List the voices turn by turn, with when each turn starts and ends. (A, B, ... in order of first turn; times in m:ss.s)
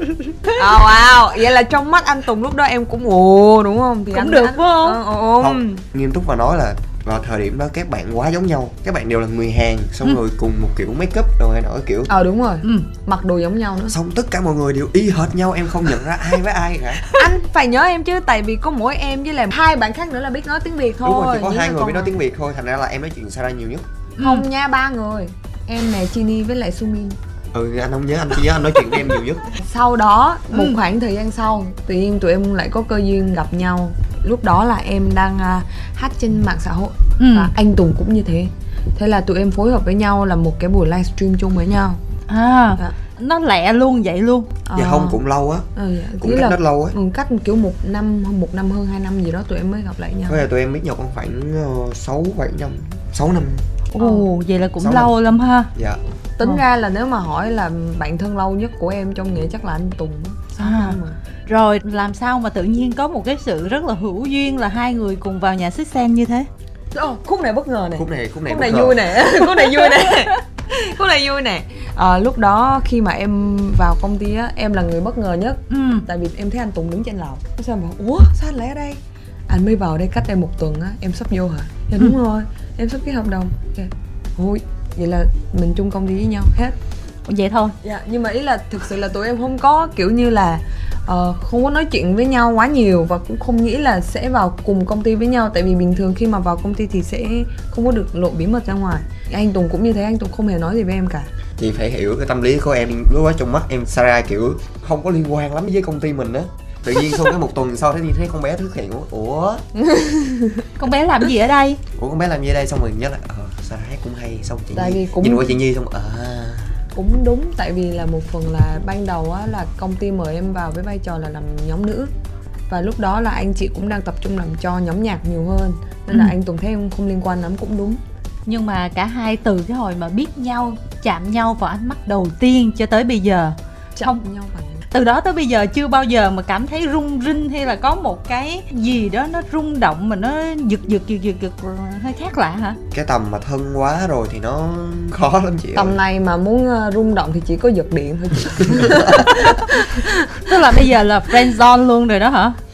0:00.6-0:05.8 A
0:04.1-0:05.0 B
0:05.4-0:12.1 C
0:12.1-0:14.0 A
0:13.9-0:17.0 C
0:17.1-0:22.2 A
0:21.0-0:23.8 C
0:24.2-0:24.5 B
0:24.2-0:27.2 A
0:27.5-0:29.5 C
0:29.6-0:42.0 A
0:30.5-0:30.8 B
0:37.2-0:37.5 B
0:42.3-0:44.5 B
0:44.7-0:45.2 A
0:44.8-0:45.7 C
0:45.8-0:50.4 A
0:46.2-0:47.0 C
0:50.3-0:53.6 C
0:54.0-0:55.7 B
0:54.0-0:54.2 A
0:54.8-0:55.1 C
0:55.8-0:56.0 C
0:56.4-1:01.2 A
1:00.6-1:06.5 B
1:06.9-1:26.8 A
1:08.0-1:09.1 C
1:15.7-1:16.0 B
1:27.3-1:27.8 B
1:27.8-1:41.3 A
1:41.6-1:49.6 C
1:49.8-1:50.7 A
1:50.8-1:51.8 B
1:52.0-1:56.8 C
1:54.7-1:55.6 A
1:56.9-2:02.1 A
2:02.7-2:08.0 A
2:08.5-2:14.2 B
2:14.0-2:14.8 A
2:14.9-2:22.8 B
2:22.9-2:26.0 C
2:25.7-2:30.6 A
2:28.6-2:29.4 C
2:30.4-2:32.6 B